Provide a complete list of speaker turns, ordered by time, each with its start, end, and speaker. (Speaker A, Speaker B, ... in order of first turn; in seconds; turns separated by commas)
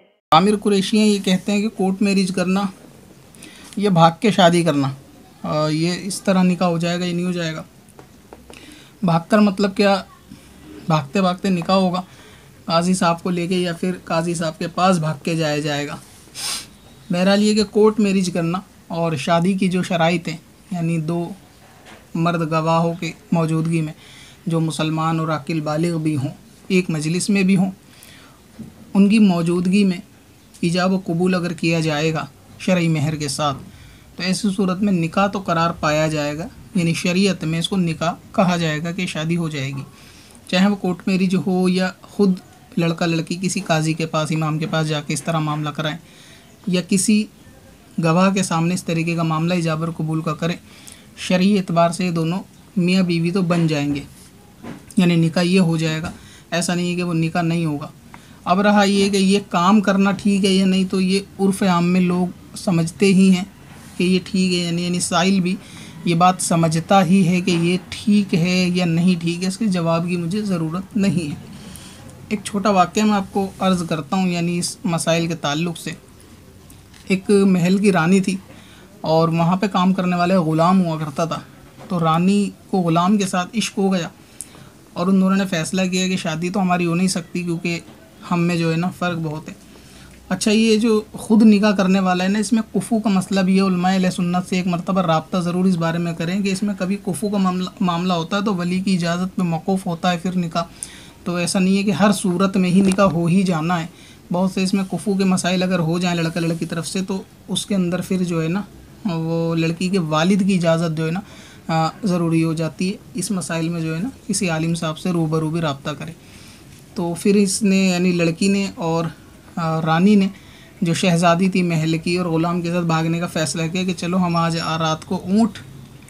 Speaker A: 0.3-2.7, Speaker A: 3.8-7.7, Speaker A: 9.0-10.1, Speaker A: 10.9-12.1, Speaker A: 12.7-16.0, Speaker A: 17.1-21.4, Speaker A: 22.1-27.8, Speaker A: 28.9-30.0, Speaker A: 30.6-33.6, Speaker A: 34.1-39.9, Speaker A: 40.5-46.0, Speaker A: 46.7-47.3, Speaker A: 48.0-50.6, Speaker A: 51.2-54.1, Speaker A: 55.0-57.9, Speaker A: 58.5-71.4, Speaker A: 72.3-76.0, Speaker A: 77.1-78.4, Speaker A: 79.0-84.1, Speaker A: 84.9-89.6, Speaker A: 90.3-100.7, Speaker A: 101.2-116.2, Speaker A: 116.9-125.6